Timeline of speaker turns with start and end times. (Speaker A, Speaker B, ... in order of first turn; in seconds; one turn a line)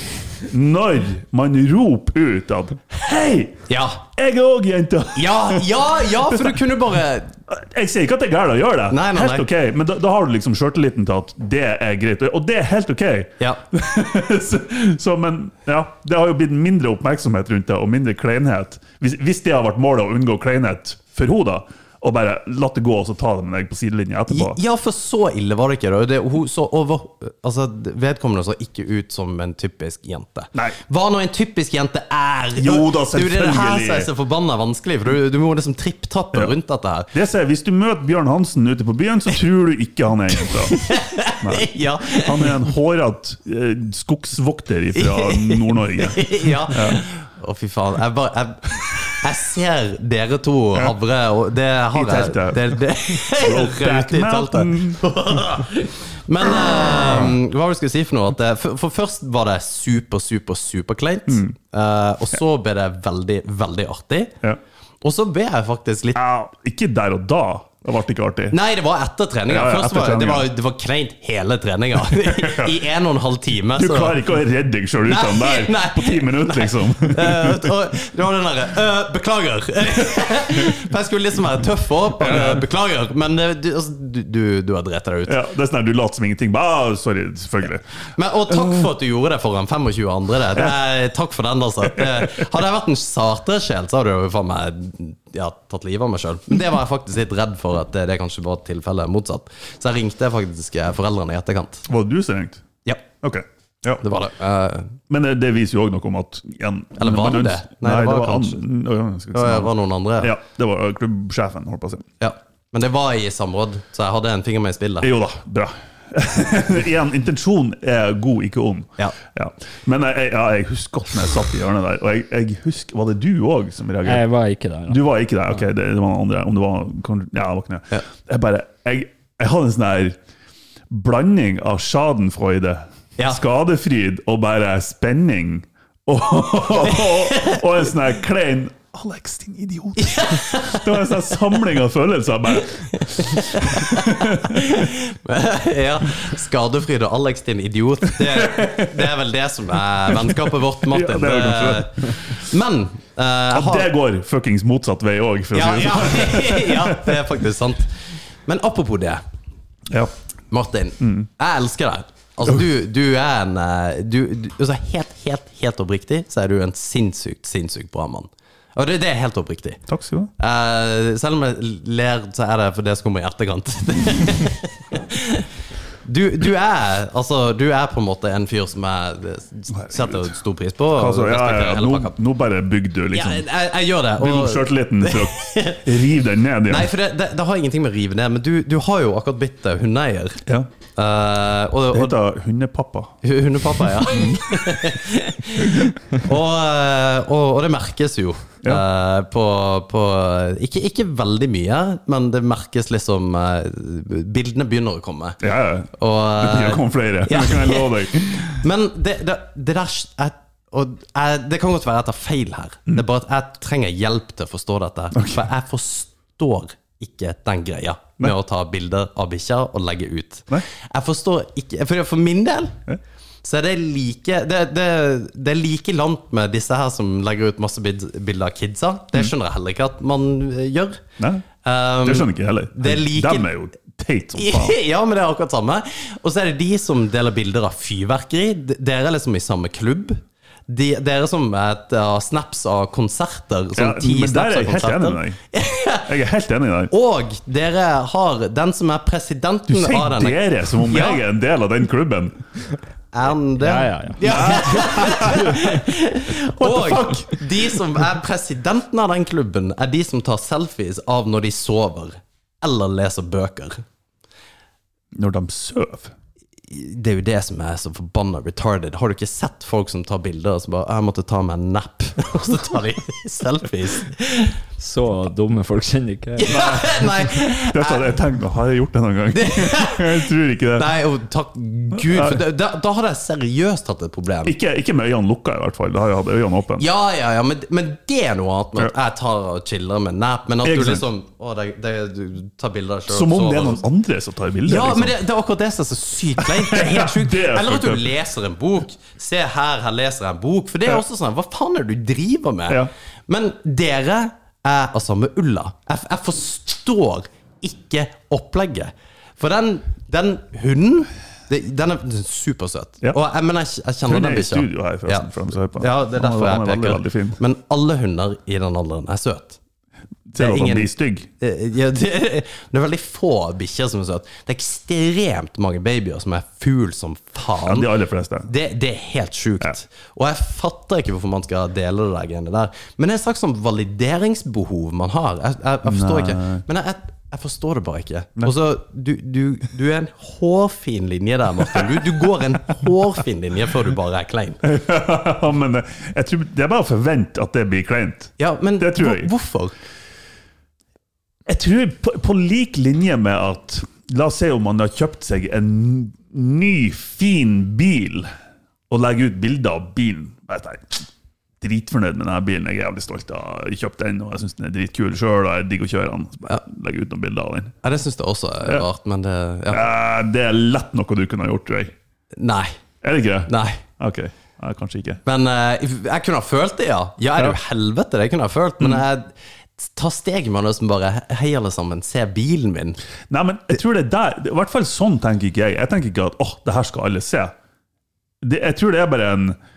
Speaker A: 0.4-5.7
Speaker B: 3.7-4.0
Speaker B: 5.1-7.3
Speaker A: 7.5-24.6
Speaker B: 8.9-9.4
Speaker B: 24.3-37.1
Speaker A: 32.6-34.1
Speaker A: 37.1-40.9
Speaker B: 40.4-42.5
Speaker A: 41.4-47.0
Speaker B: 44.9-64.3
Speaker A: 51.9-55.0
Speaker B: 65.0-66.2
Speaker A: 66.1-68.5
Speaker B: 68.5-74.2
Speaker A: 69.5-70.5
Speaker A: 72.1-72.8
Speaker A: 73.7-77.7
Speaker B: 75.0-85.4
Speaker A: 82.2-82.6
Speaker A: 85.2-87.8
Speaker B: 88.2-101.8
Speaker A: 92.0-92.4
Speaker A: 101.8-102.6
Speaker A: 103.2-104.0
Speaker B: 104.0-104.9
Speaker A: 105.1-112.0
Speaker B: 107.0-108.6
Speaker B: 109.3-110.3
Speaker B: 112.2-115.1
Speaker A: 115.0-124.2
Speaker C: 124.0-125.0
Speaker A: 124.9-130.2
Speaker A: 130.9-144.9
Speaker B: 136.8-137.6
Speaker B: 140.0-141.2
Speaker B: 142.9-153.9
Speaker A: 148.1-149.1
Speaker A: 150.1-152.4
Speaker A: 153.5-157.2
Speaker B: 155.5-159.2
Speaker B: 160.5-169.8
Speaker A: 161.0-161.2
Speaker A: 169.9-170.3
Speaker B: 170.4-175.5
Speaker B: 176.0-182.1
Speaker A: 179.8-180.2
Speaker A: 180.9-183.4
Speaker B: 183.1-185.9
Speaker A: 184.2-186.9
Speaker B: 186.7-190.4
Speaker B: 190.9-192.2
Speaker A: 191.9-193.2
Speaker B: 193.2-205.4
Speaker A: 193.8-194.7
Speaker A: 205.4-208.6
Speaker B: 205.9-222.8
Speaker A: 215.1-215.4
Speaker B: 223.4-231.0
Speaker A: 231.2-231.4
Speaker B: 231.6-233.5
Speaker A: 232.0-234.8
Speaker B: 234.3-246.1
Speaker A: 243.8-245.4
Speaker A: 246.1-246.9
Speaker B: 246.9-251.2
Speaker A: 249.7-252.4
Speaker B: 253.1-263.8
Speaker C: 253.6-255.7
Speaker A: 254.2-255.7
Speaker A: 256.6-257.8
Speaker A: 265.1-266.1
Speaker B: 266.7-274.5
Speaker C: 274.8-276.8
Speaker B: 276.4-278.1
Speaker A: 276.5-280.9
Speaker B: 279.3-284.5
Speaker A: 281.9-282.4
Speaker A: 284.4-286.9
Speaker B: 286.8-293.8
Speaker A: 290.6-291.0
Speaker A: 293.1-295.2
Speaker B: 294.6-319.6
Speaker A: 296.4-298.1
Speaker A: 314.1-317.4
Speaker A: 320.3-321.3
Speaker B: 320.3-327.9
Speaker A: 327.6-328.5
Speaker B: 328.4-344.6
Speaker A: 335.8-336.6
Speaker A: 344.6-349.3
Speaker B: 348.4-349.7
Speaker A: 351.5-358.3
Speaker A: 358.9-361.0
Speaker A: 361.6-367.7
Speaker B: 367.8-369.9
Speaker A: 369.7-371.9
Speaker B: 372.4-372.7
Speaker A: 373.0-375.2
Speaker B: 373.5-373.8
Speaker B: 375.2-383.0
Speaker A: 383.3-387.5
Speaker A: 388.4-389.6